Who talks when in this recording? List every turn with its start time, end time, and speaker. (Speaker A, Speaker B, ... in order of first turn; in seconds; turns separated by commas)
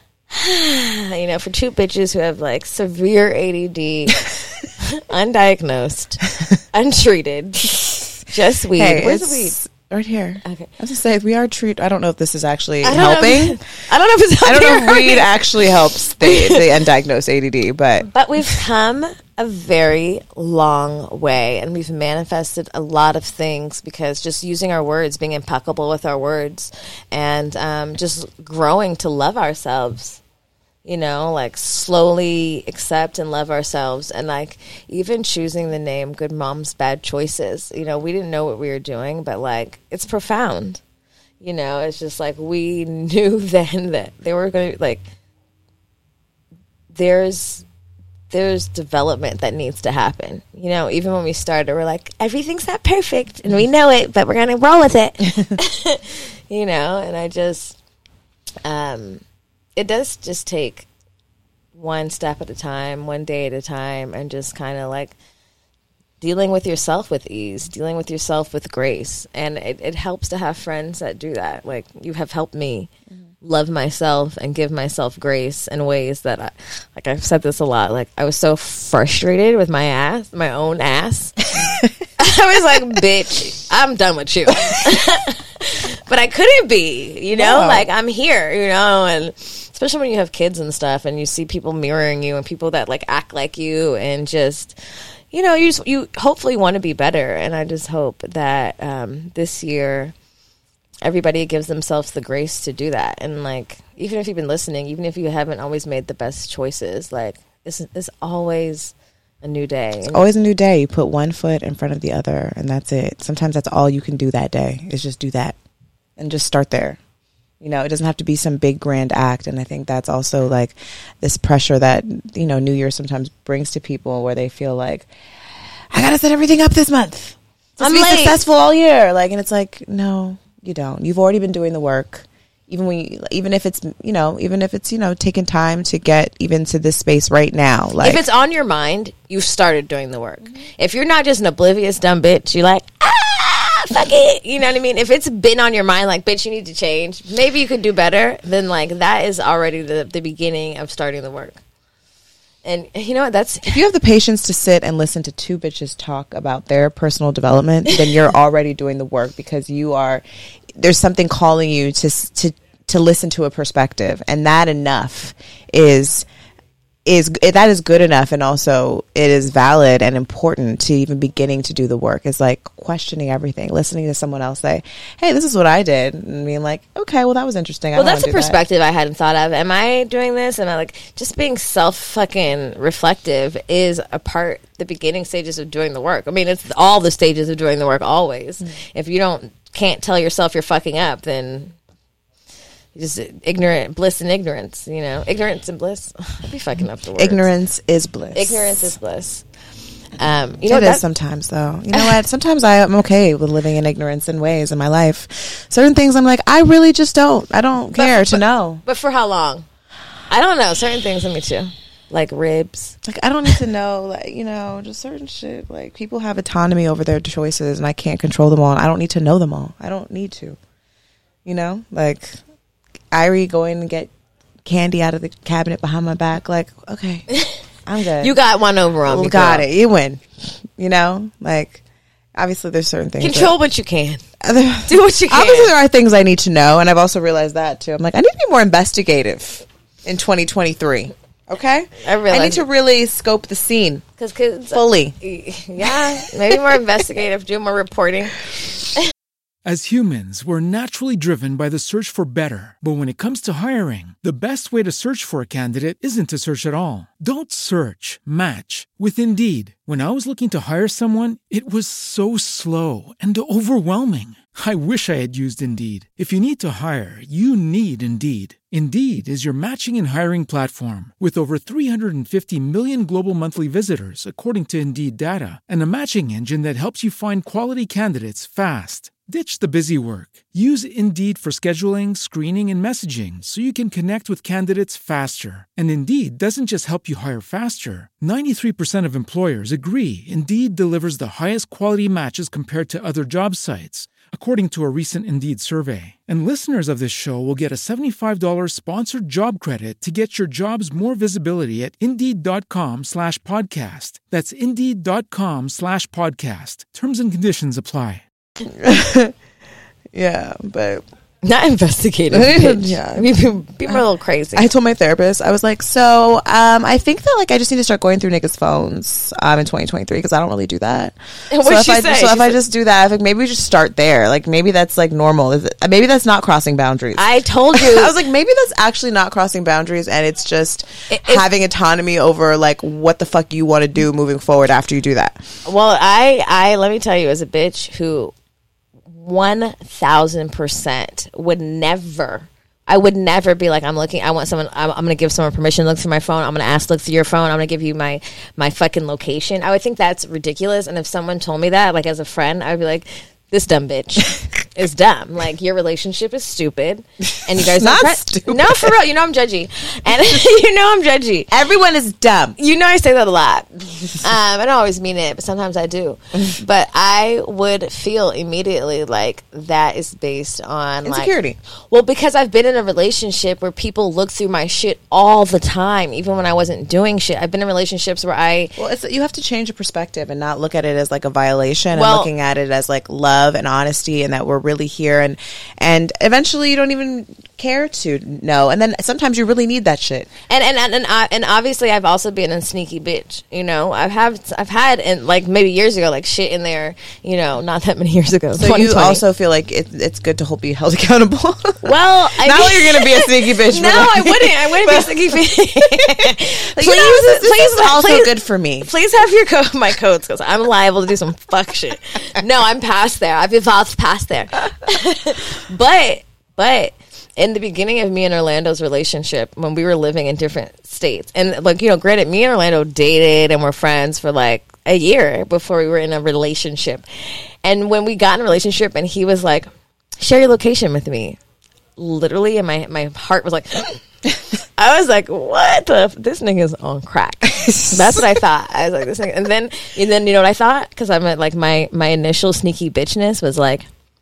Speaker A: 0.3-4.2, Speaker A: 4.8-9.5, Speaker B: 8.7-13.7, Speaker A: 10.4-10.7, Speaker A: 12.8-15.3, Speaker B: 14.4-18.1, Speaker A: 16.2-16.6, Speaker A: 18.1-30.2, Speaker A: 30.8-40.8, Speaker A: 41.4-45.0, Speaker A: 46.9-47.6, Speaker A: 48.3-57.8, Speaker A: 58.6-59.2, Speaker A: 59.8-60.9, Speaker A: 61.7-65.1, Speaker A: 66.2-72.9, Speaker A: 73.4-81.5, Speaker B: 81.6-81.9, Speaker A: 82.2-94.8, Speaker B: 87.3-87.8, Speaker A: 95.3-100.1, Speaker A: 101.0-110.2, Speaker B: 110.1-115.6, Speaker B: 116.2-117.0, Speaker B: 117.6-125.1, Speaker B: 125.9-138.2, Speaker A: 127.8-128.4, Speaker A: 138.0-151.6, Speaker A: 152.6-153.8, Speaker B: 153.7-166.3, Speaker B: 167.0-178.6, Speaker A: 177.9-191.7, Speaker A: 192.9-197.5, Speaker B: 197.2-198.9, Speaker A: 198.3-199.4, Speaker A: 200.2-201.0, Speaker B: 200.6-208.8, Speaker A: 207.9-209.7, Speaker A: 210.3-213.0, Speaker B: 213.0-220.6, Speaker B: 221.4-222.4, Speaker B: 223.1-224.1, Speaker B: 224.6-227.3, Speaker B: 227.8-228.3, Speaker A: 228.2-229.7, Speaker B: 229.0-231.8, Speaker B: 232.4-233.6, Speaker A: 233.2-234.2, Speaker B: 234.4-244.1, Speaker A: 234.9-235.7, Speaker A: 242.0-242.6, Speaker A: 244.2-248.4, Speaker B: 244.7-245.2, Speaker C: 249.6-308.2, Speaker B: 308.7-309.3, Speaker B: 310.1-311.0, Speaker A: 311.4-314.7, Speaker B: 312.3-313.3, Speaker B: 314.5-335.4, Speaker A: 321.5-322.6, Speaker A: 327.1-328.1, Speaker A: 331.1-331.4, Speaker A: 335.6-338.3, Speaker A: 339.1-361.5, Speaker B: 357.6-358.9, Speaker B: 361.5-362.6, Speaker A: 362.6-371.3, Speaker B: 371.0-371.6, Speaker A: 371.9-378.7, Speaker B: 378.8-390.3, Speaker A: 381.9-382.3, Speaker A: 390.5-399.2, Speaker B: 398.5-408.9, Speaker A: 401.8-431.4, Speaker A: 432.0-434.0, Speaker A: 434.6-443.9